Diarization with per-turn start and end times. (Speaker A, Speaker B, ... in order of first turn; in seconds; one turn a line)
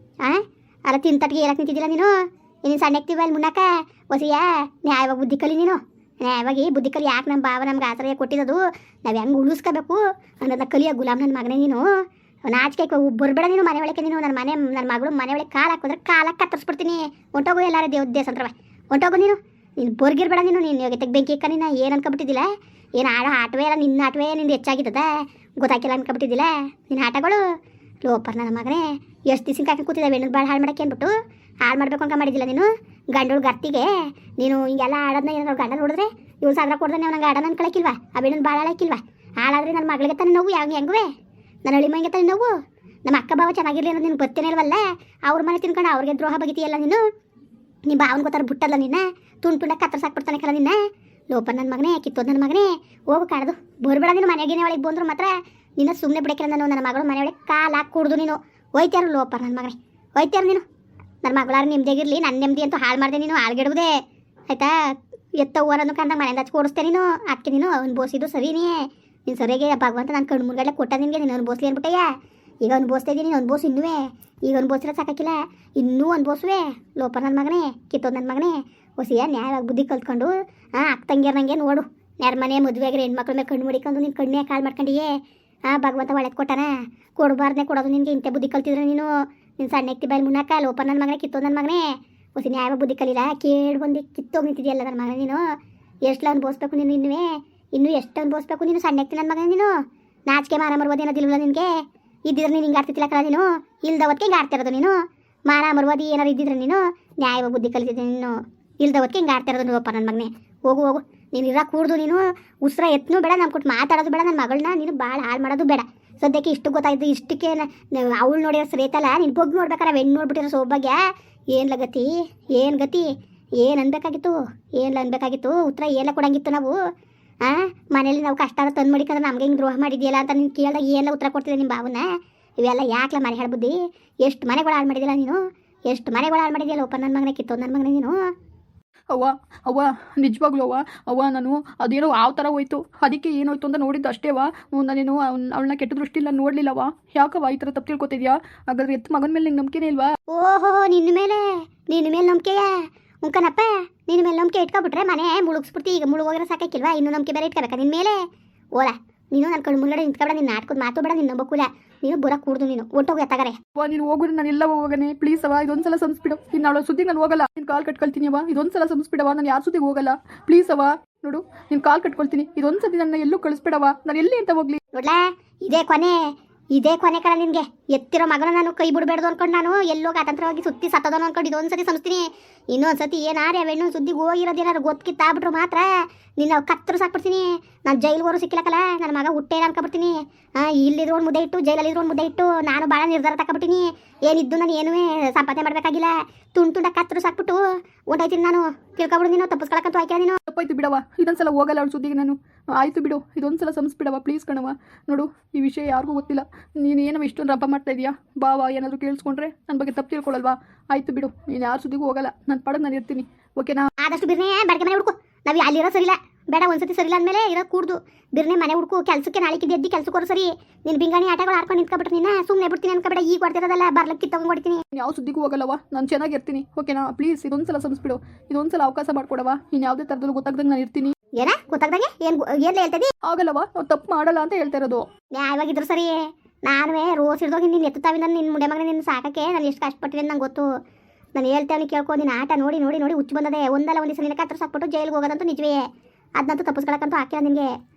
Speaker A: 0.2-2.1
Speaker A: 2.6-11.8
Speaker A: 12.5-22.5
Speaker A: 23.0-25.1
Speaker A: 25.6-27.4
Speaker A: 28.0-31.1
Speaker A: 31.6-41.0
Speaker A: 41.6-42.5
Speaker A: 43.1-47.0
Speaker A: 47.9-50.8
Speaker A: 51.3-60.6
Speaker A: 61.2-63.9
Speaker A: 64.5-72.1
Speaker A: 72.6-85.1
Speaker A: 85.7-95.4
Speaker A: 96.0-99.7
Speaker A: 100.3-101.7
Speaker A: 102.3-104.9
Speaker A: 105.5-121.0
Speaker A: 121.5-123.0
Speaker A: 123.6-126.7
Speaker A: 127.4-132.1
Speaker A: 132.6-138.2
Speaker B: 139.1-150.1
Speaker A: 150.3-152.7
Speaker A: 153.2-158.2
Speaker A: 158.8-163.6
Speaker B: 163.8-174.8
Speaker A: 174.9-176.2
Speaker A: 176.7-197.6
Speaker A: 198.1-200.4
Speaker B: 200.5-213.9
Speaker A: 214.0-224.8
Speaker B: 224.9-231.1
Speaker A: 231.4-233.1
Speaker B: 233.2-235.1
Speaker A: 235.3-240.7
Speaker A: 241.3-245.8
Speaker A: 246.4-247.7